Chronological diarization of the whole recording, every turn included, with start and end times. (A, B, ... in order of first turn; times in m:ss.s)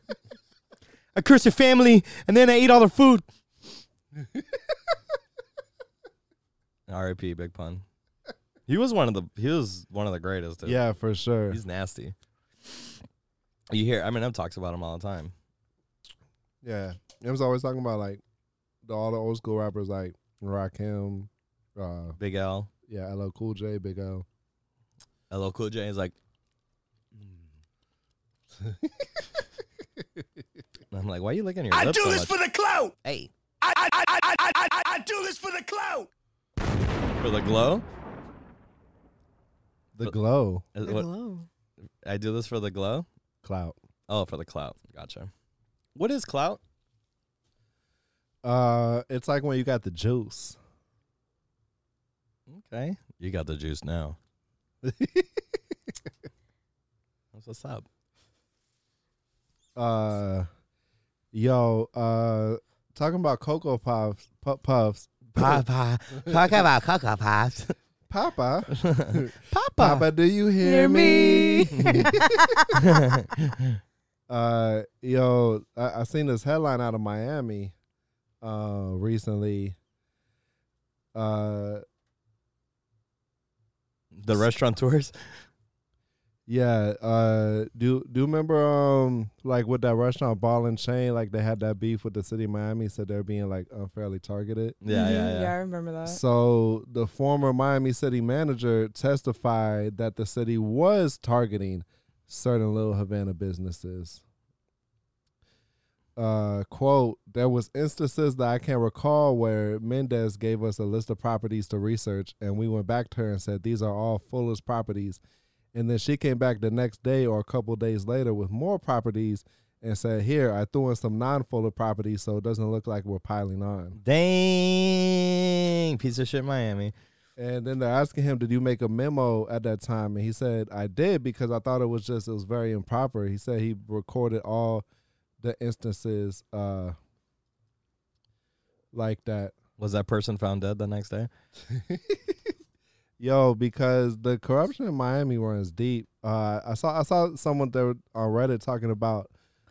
0:01.2-0:03.3 A
0:06.9-0:07.8 A
0:08.7-0:10.8 A
0:10.6-0:11.6 B
0:11.5-0:12.2 A
0:13.7-0:15.3 A
0:16.6-0:18.2 B
0:18.8-0:22.2 B
0:22.2-0:22.7 A
0:22.9-0:24.2 B
0:25.3-0:26.2 A
0:28.6-0:29.3 B
0:30.9-0:32.3 A
0:31.7-0:33.0 C
0:33.0-0:33.3 A
0:33.6-0:36.1 C
0:37.2-0:37.8 A
0:40.0-0:40.7 B
0:40.8-0:41.1 A
0:40.8-0:41.5 D
0:42.0-0:43.1 A
0:43.4-0:43.8 B
0:44.1-0:45.3 A
0:46.0-0:46.6 A
0:48.4-0:50.6 B
0:52.5-0:54.2 A
0:54.8-0:56.0 B
0:57.3-0:57.9 A
0:59.8-1:00.5 B
1:01.3-1:05.6 B
1:05.4-1:07.8 A
1:06.3-1:06.6 B
1:08.1-1:12.3 B
1:08.8-1:10.1 A
1:10.6-1:12.9 D
1:11.8-1:12.1 A
1:12.8-1:13.8 A
1:14.3-1:17.7 B
1:18.4-1:19.8 B
1:21.1-1:21.8 B
1:24.2-1:25.1 A
1:26.5-1:34.8 B
1:34.8-1:35.5 A
1:34.9-1:36.2 D
1:36.1-1:44.2 B
1:46.2-1:55.2 B
1:55.7-2:04.0 B
2:04.0-2:06.9 A
2:07.4-2:14.8 B
2:15.4-2:17.0 B
2:18.9-2:19.6 B
2:19.8-2:21.3 A
2:21.7-2:22.5 B
2:23.2-2:29.3 B